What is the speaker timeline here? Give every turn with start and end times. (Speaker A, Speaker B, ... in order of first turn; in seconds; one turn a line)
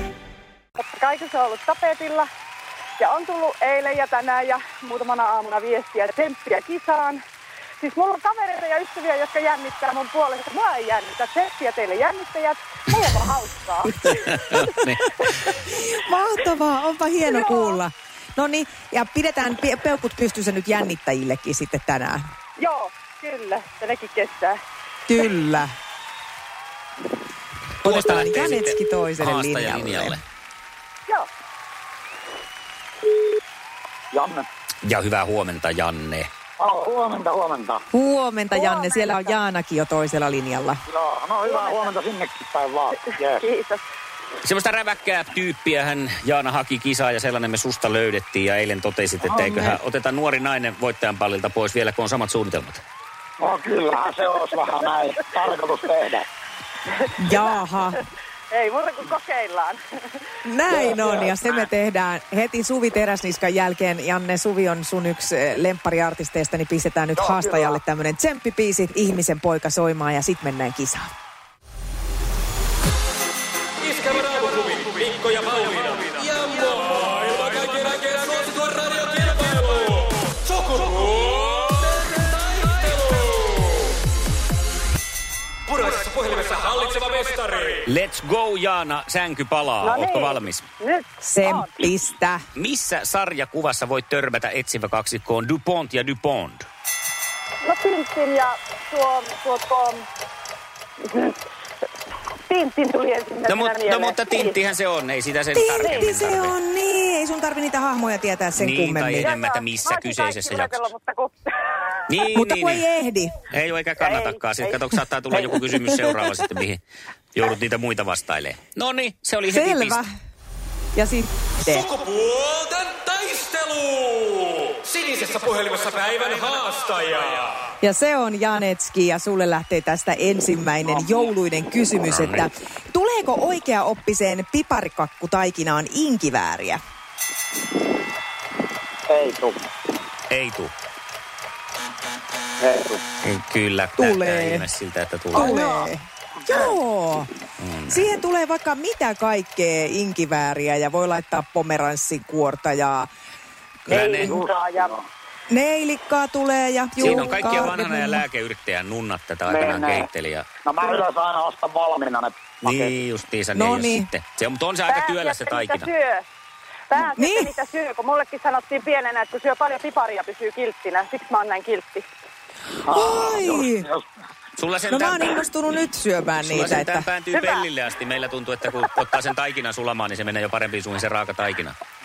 Speaker A: 0.8-2.3
Speaker A: 3.0-7.2
Speaker A: 7.8-14.8
Speaker B: 14.0-15.1
Speaker C: 15.7-22.2
Speaker A: 17.2-17.8
Speaker A: 22.6-24.6
Speaker C: 25.1-25.7
Speaker B: 27.8-30.2
Speaker C: 27.8-30.2
Speaker D: 34.1-34.5
Speaker B: 34.8-36.3
Speaker D: 36.6-37.8
Speaker C: 37.9-40.8
Speaker A: 38.5-39.4
Speaker D: 40.9-43.4
Speaker A: 41.5-41.9
Speaker A: 43.0-43.8
Speaker B: 44.4-52.8
Speaker D: 49.3-49.6
Speaker D: 53.4-56.3
Speaker A: 56.9-59.8
Speaker C: 57.2-58.0
Speaker C: 60.5-71.1
Speaker D: 67.2-67.7
Speaker E: 73.9-81.8
Speaker E: 82.5-83.2
Speaker E: 85.8-87.8
Speaker B: 87.8-90.7
Speaker A: 89.8-91.9
Speaker C: 91.2-92.4
Speaker B: 92.5-96.7
Speaker A: 97.6-100.0
Speaker A: 101.0-101.4
Speaker A: 102.5-104.6
Speaker B: 103.5-106.5
Speaker C: 105.5-109.3
Speaker B: 108.5-110.8
Speaker A: 109.2-112.1
Speaker B: 112.1-112.8
Speaker C: 112.3-113.3
Speaker B: 113.5-116.8
Speaker A: 114.0-115.0
Speaker B: 117.3-120.0
Speaker C: 119.5-120.1
Speaker C: 121.0-121.9
Speaker E: 122.2-124.0
Speaker E: 125.0-127.3
Speaker C: 127.8-136.8
Speaker B: 132.1-132.5
Speaker D: 139.1-139.6
Speaker B: 140.3-140.7
Speaker D: 142.6-143.0
Speaker B: 143.2-145.6
Speaker C: 144.0-144.7
Speaker C: 145.3-147.3
Speaker D: 145.4-145.9
Speaker B: 147.6-148.1
Speaker C: 147.9-153.1
Speaker B: 153.9-154.4
Speaker D: 154.2-155.1
Speaker C: 155.5-158.2
Speaker B: 157.0-160.5
Speaker D: 159.5-160.1
Speaker D: 160.7-163.0
Speaker B: 162.6-165.9
Speaker C: 163.6-164.1
Speaker A: 164.9-166.3
Speaker A: 166.9-172.1
Speaker C: 167.1-167.5
Speaker D: 172.9-174.1
Speaker C: 172.9-173.9
Speaker B: 174.6-175.4
Speaker C: 174.9-177.1
Speaker B: 176.4-181.8
Speaker A: 177.3-177.6